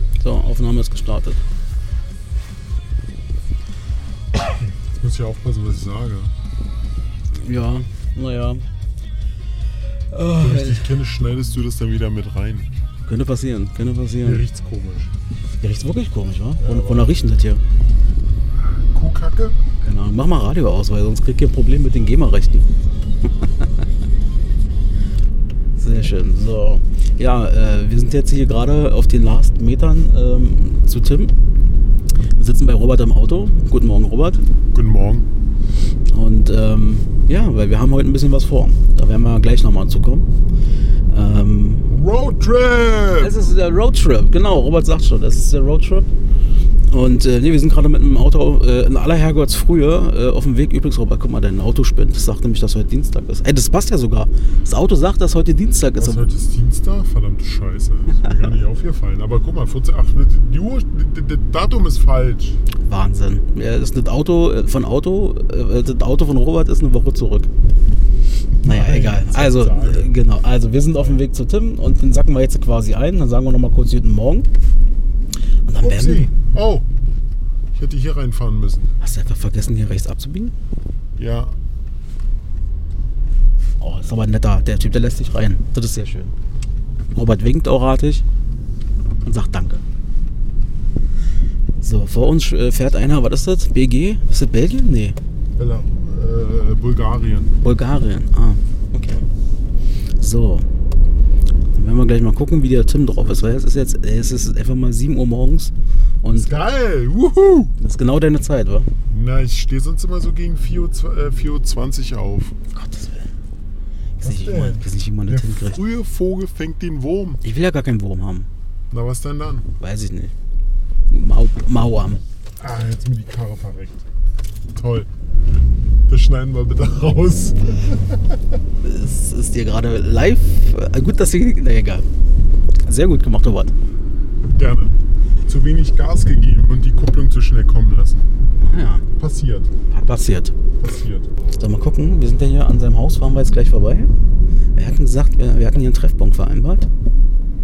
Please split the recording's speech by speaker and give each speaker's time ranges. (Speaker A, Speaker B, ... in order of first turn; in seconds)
Speaker A: 0.2-1.4, 7.4-8.6, 10.1-10.9, 13.1-14.4, 15.6-17.6, 19.8-22.7, 25.8-31.3, 32.4-34.4, 36.1-40.3, 41.1-41.9, 43.2-46.1, 46.9-56.2, 62.9-67.5, 68.6-74.5, 75.7-76.3, 79.0-80.5, 83.8-86.3, 87.2-88.2, 89.2-89.8, 91.8-95.2, 97.6-99.2, 100.2-100.7, 101.8-106.5, 107.8-108.9, 112.7-113.3, 114.2-115.8, 117.4-118.5, 119.8-120.3, 121.1-122.2, 128.8-132.1, 132.9-133.7, 138.6-139.1, 139.9-140.5, 141.6-144.1, 144.8-146.9
Speaker B: 4.4-6.3, 10.4-12.7, 14.2-15.1, 16.6-17.1, 18.5-19.6, 34.7-35.3, 41.9-43.3, 56.0-62.6, 68.6-70.1, 75.8-76.8, 77.7-78.9, 81.2-81.5, 95.6-97.5, 106.3-107.7, 109.1-112.5, 114.2-117.4, 118.9-119.7, 122.6-124.0, 124.7-125.1, 126.1-128.4, 134.5-134.9, 135.5-138.3, 139.2-139.7, 140.8-141.3